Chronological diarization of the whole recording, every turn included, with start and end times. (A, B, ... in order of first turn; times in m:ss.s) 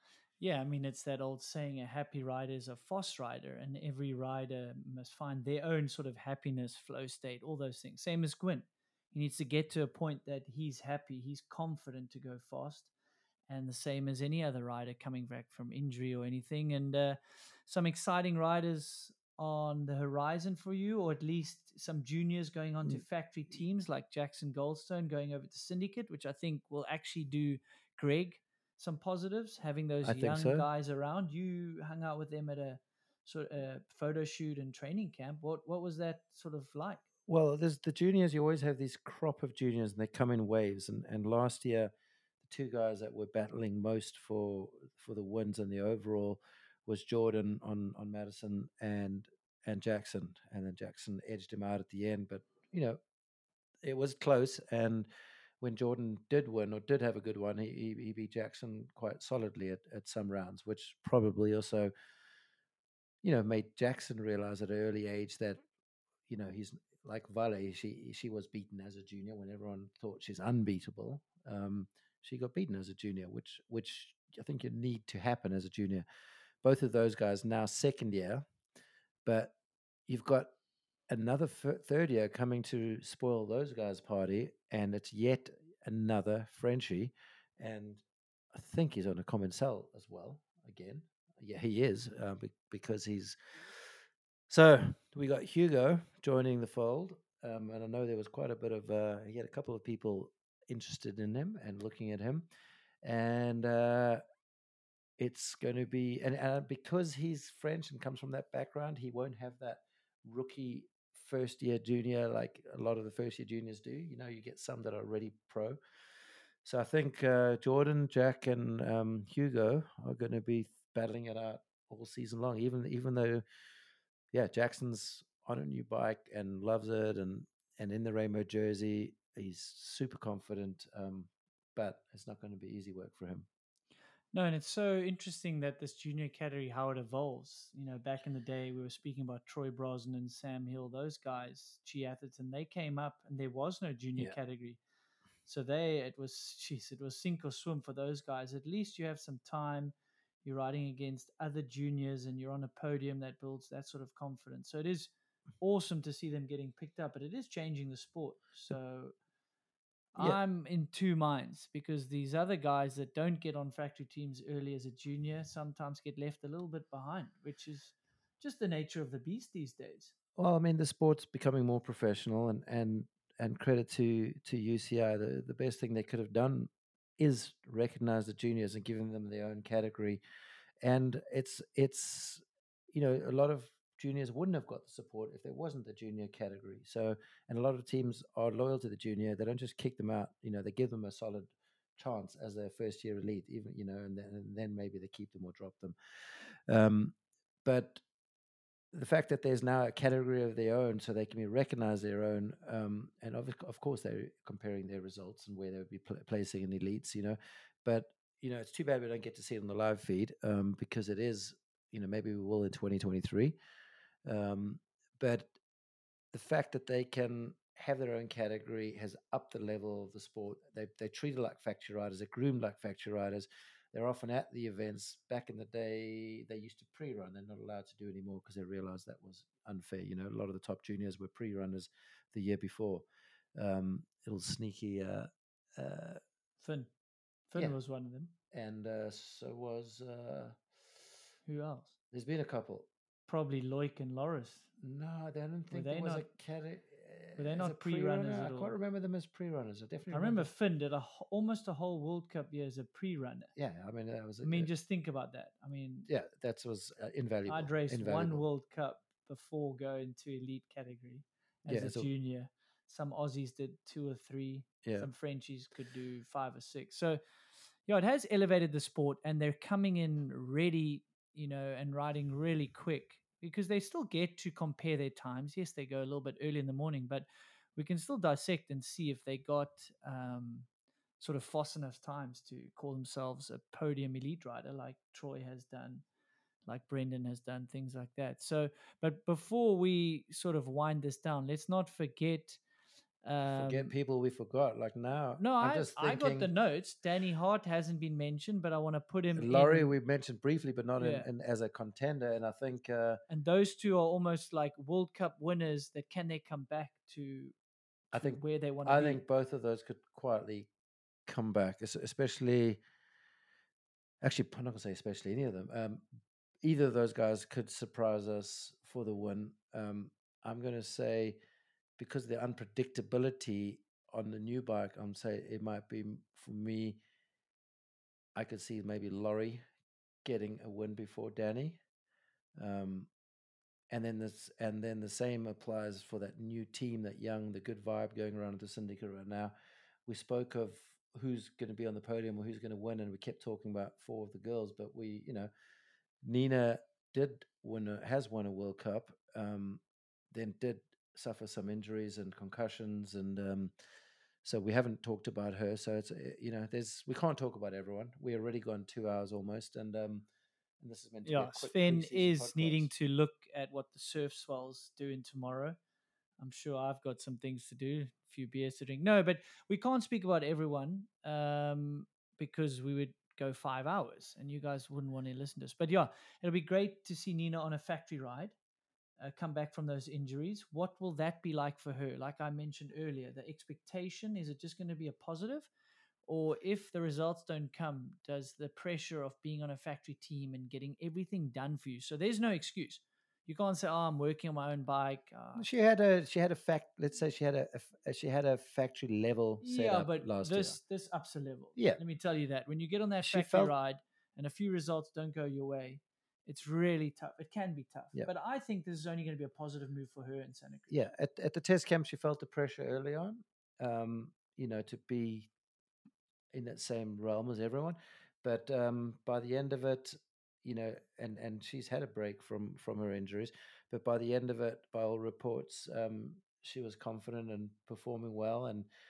0:00.4-0:12.9 A
0:13.5-0:37.0 A
0:30.0-0:30.7 B
0:37.3-0:41.9 B
0:42.4-0:53.0 B
0:53.8-0:55.1 B
0:55.6-1:01.9 B
1:03.2-1:05.6 B
1:06.3-1:16.0 B
1:16.6-1:18.4 B
1:19.2-1:19.5 B
1:20.1-1:20.5 B
1:21.1-1:33.8 B
1:34.5-1:42.5 B
1:43.0-1:44.2 B
1:45.2-1:55.8 B
1:56.6-2:03.4 B
2:04.3-2:13.4 B
2:14.3-2:24.8 A
2:25.4-2:39.1 A
2:40.2-2:50.1 A
2:50.4-3:00.2 B
3:00.8-3:16.0 B
3:16.7-3:17.1 B
3:17.6-3:18.0 B
3:18.9-3:33.6 B
3:34.3-3:35.5 B
3:36.3-3:53.0 B
3:53.6-3:56.2 B
3:56.6-3:56.9 A
3:57.5-3:58.3 A
3:58.5-4:00.6 B
4:01.4-4:01.9 A
4:02.1-4:02.9 B
4:03.3-4:04.7 A
4:04.8-4:10.5 B
4:05.7-4:06.2 A
4:07.4-4:08.7 A
4:10.1-4:13.5 A
4:13.6-4:14.7 B
4:14.4-4:16.1 A
4:16.1-4:18.5 B
4:17.5-4:27.2 A
4:21.7-4:22.1 B
4:24.8-4:25.1 B
4:27.9-4:40.7 A
4:41.2-4:46.0 A
4:46.7-4:52.6 A
4:53.2-4:53.9 A
4:53.6-4:56.5 B
4:55.4-5:00.0 A
4:59.3-5:03.2 B
5:01.0-5:01.3 A
5:03.3-5:07.5 A
5:08.1-5:10.7 B
5:08.1-5:09.2 A
5:11.3-5:12.8 B
5:14.2-5:16.0 B
5:16.6-5:21.4 B
5:22.0-5:27.0 B
5:28.4-5:29.6 B
5:30.2-5:31.8 B
5:32.6-5:33.1 B
5:33.9-5:39.5 B
5:40.1-5:45.5 B
5:46.2-5:53.7 B
5:54.4-6:00.3 B
6:00.8-6:02.9 B
6:01.2-6:05.8 A
6:06.4-6:18.6 A
6:19.2-6:25.7 A
6:26.3-6:35.7 A
6:35.6-6:40.8 B
6:39.6-6:50.9 A
6:41.8-6:42.0 B
6:43.2-6:43.7 B
6:50.9-6:55.5 B
6:56.5-7:08.9 B